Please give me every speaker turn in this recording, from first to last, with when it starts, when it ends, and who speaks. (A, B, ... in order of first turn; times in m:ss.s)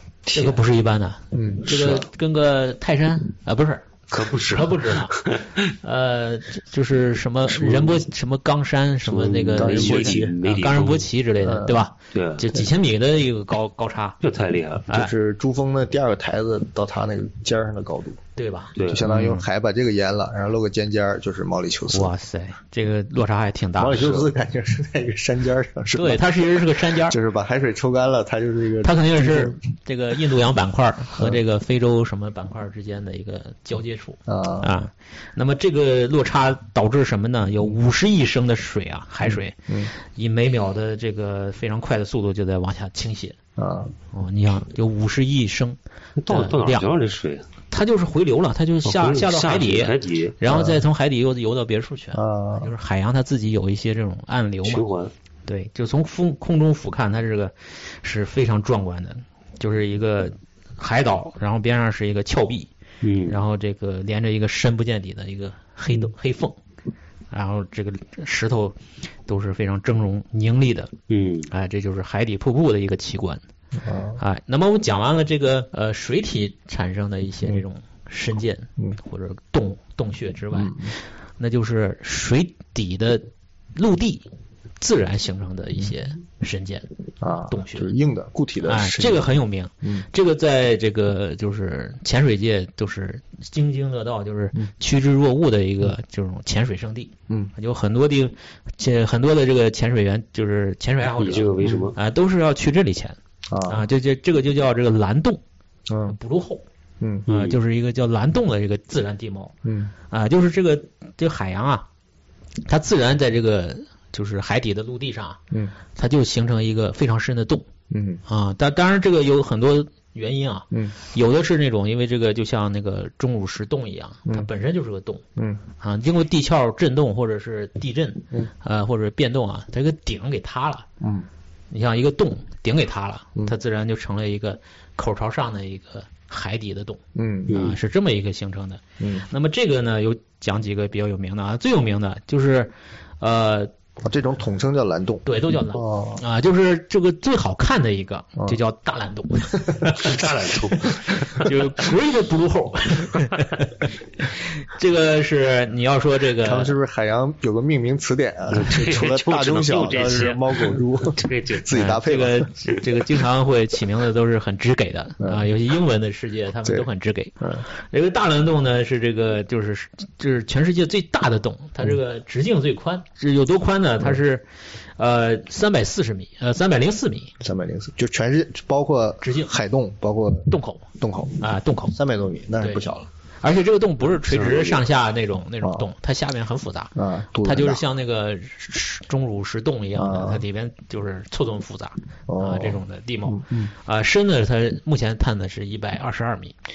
0:00.3-0:00.6 A
0:00.3-0:05.1 B
0:01.3-0:02.0 C
0:01.7-0:02.0 A
0:04.1-0:05.6 A
0:05.8-0:14.2 B
0:07.6-0:08.0 C
0:09.0-0:11.1 A
0:09.6-0:10.3 C
0:11.4-0:11.9 C
0:12.1-0:12.5 A
0:14.2-0:14.9 A
0:14.9-0:18.2 C
0:18.4-0:19.4 B
0:18.8-0:19.0 A
0:18.8-0:22.1 C
0:21.9-0:24.3 B
0:23.8-0:26.2 C
0:25.9-0:27.2 B
0:26.9-0:29.6 C
0:28.8-0:43.4 B
0:34.3-0:34.7 C
0:39.2-0:39.9 C
0:43.6-0:43.9 C
0:44.1-0:45.8 B
0:46.2-0:47.5 A
0:46.3-0:46.9 B
0:47.7-0:54.8 B
0:48.8-0:50.4 A
0:50.5-0:50.8 C
0:52.1-0:52.7 C
0:54.6-0:55.1 A
0:55.5-1:02.7 B
1:03.0-1:03.4 A
1:03.3-1:06.6 B
1:07.3-1:10.9 B
1:11.1-1:11.5 A
1:11.5-1:13.4 B
1:13.8-1:14.2 C
1:14.2-1:24.2 B
1:20.5-1:20.9 C
1:24.8-1:26.9 B
1:27.2-1:30.0 C
1:27.5-1:27.9 B
1:28.6-1:45.4 B
1:41.2-1:42.0 A
1:41.6-1:41.9 C
1:43.5-1:43.8 C
1:45.9-1:46.2 C
1:46.1-1:46.6 B
1:47.0-1:47.3 C
1:47.2-1:49.5 B
1:47.3-1:47.6 A
1:49.6-1:49.9 C
1:50.1-1:51.8 B
1:52.6-1:55.4 B
1:55.9-1:57.6 B
1:57.9-1:58.2 C
1:58.3-2:05.2 B
2:05.4-2:05.6 C
2:05.8-2:10.8 B
2:11.0-2:11.3 C
2:11.7-2:23.7 B
2:17.1-2:17.6 C
2:17.5-2:17.8 A
2:19.0-2:19.2 C
2:24.0-2:26.2 C
2:25.2-2:30.2 B
2:29.9-2:31.6 A
2:31.3-2:36.7 B
2:36.4-2:42.5 C
2:38.5-2:41.6 A
2:41.7-2:54.4 B
2:45.2-2:45.4 C
2:55.0-2:57.3 B
2:57.4-3:01.4 C
2:59.2-2:59.5 B
3:00.5-3:00.8 B
3:01.4-3:01.9 B
3:01.9-3:03.1 C
3:02.6-3:02.9 B
3:03.4-3:16.5 B
3:04.3-3:04.8 A
3:05.6-3:05.9 C
3:07.0-3:07.8 C
3:10.0-3:10.4 C
3:12.3-3:13.7 C